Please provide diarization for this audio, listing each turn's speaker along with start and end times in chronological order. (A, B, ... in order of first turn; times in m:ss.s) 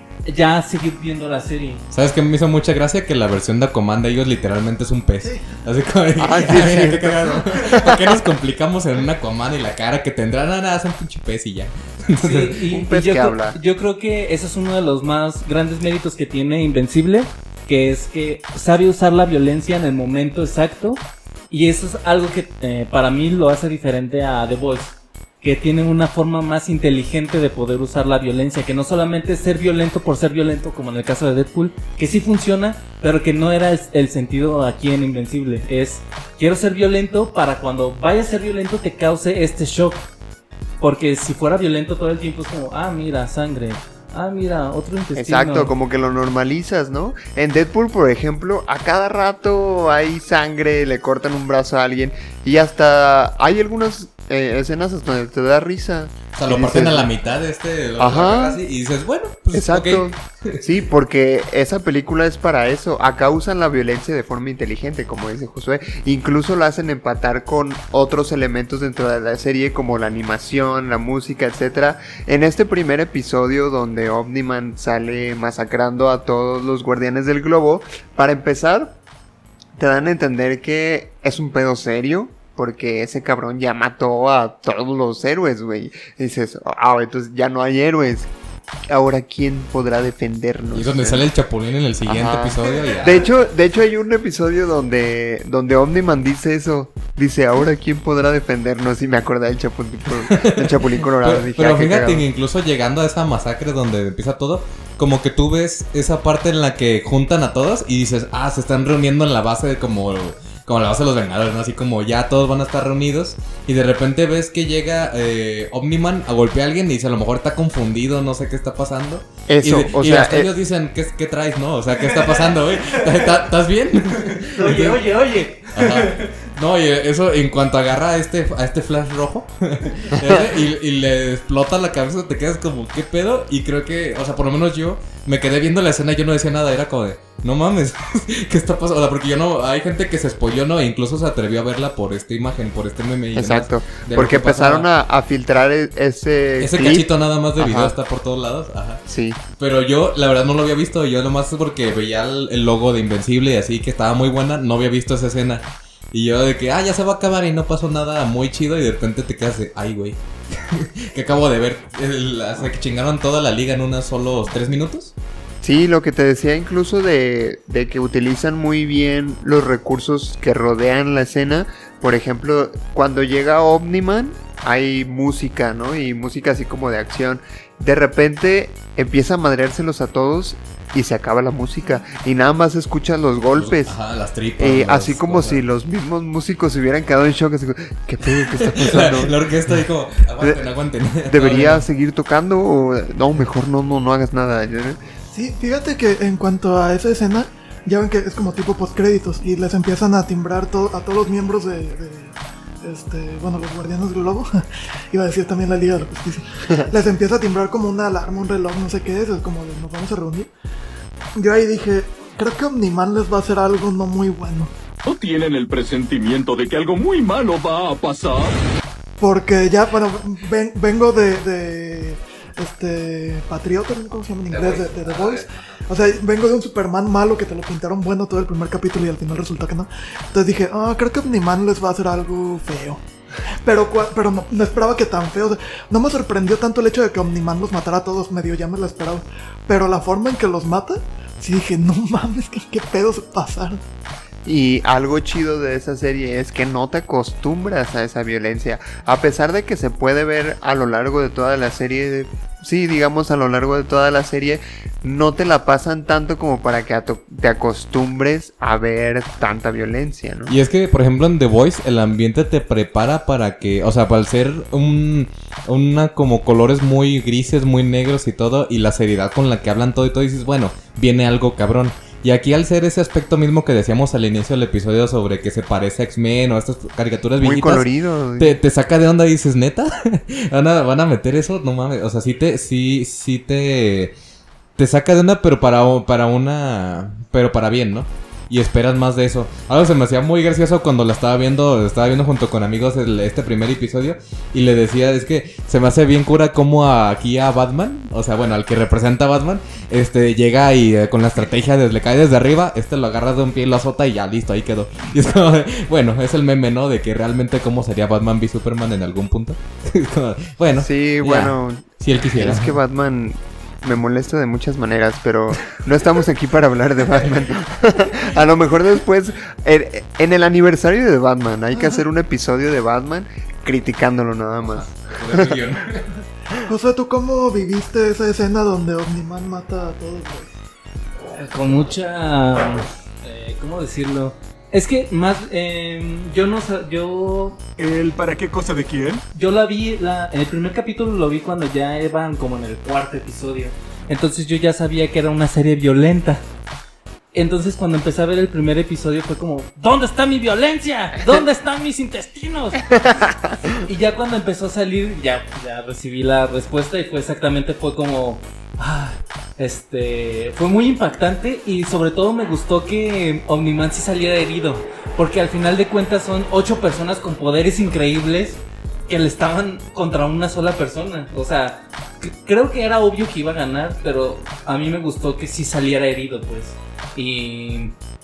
0:00.2-0:01.8 A
0:01.9-0:12.6 B
0:05.2-0:05.5 C
0:06.2-0:08.1 D
0:12.2-0:40.1 A
0:12.6-0:13.6 D
0:40.8-0:45.7 A
0:45.1-0:57.1 D
0:56.3-1:00.6 B
0:58.0-0:58.6 D
0:59.5-1:19.0 D
1:19.8-1:28.3 D
1:28.9-1:31.3 D
1:30.7-1:33.3 B
1:32.1-1:42.2 D
1:40.2-2:05.0 B
1:59.5-2:00.5 D
2:04.4-2:06.3 A
2:05.7-2:24.9 B
2:23.3-2:27.9 D
2:26.6-2:29.0 B
2:29.1-2:29.4 D
2:29.6-2:45.1 B
2:45.6-3:04.0 D
3:03.6-3:05.6 B
3:04.6-3:09.4 D
3:08.3-3:11.9 B
3:11.3-3:15.0 D
3:15.3-3:30.5 C
3:31.4-3:34.7 C
3:35.0-3:38.6 E
3:39.2-3:53.0 C
3:44.5-3:45.6 B
3:53.6-4:03.8 C
4:04.4-4:20.5 D
4:20.5-4:37.9 B
4:37.4-4:38.6 D
4:38.4-4:44.1 B
4:44.8-5:12.8 B
5:10.8-5:25.6 D
5:24.7-5:26.1 B
5:26.6-5:30.5 C
5:31.3-5:37.6 A
5:37.8-5:39.2 E
5:39.3-5:46.4 A
5:47.3-5:52.9 A
5:53.7-6:17.9 A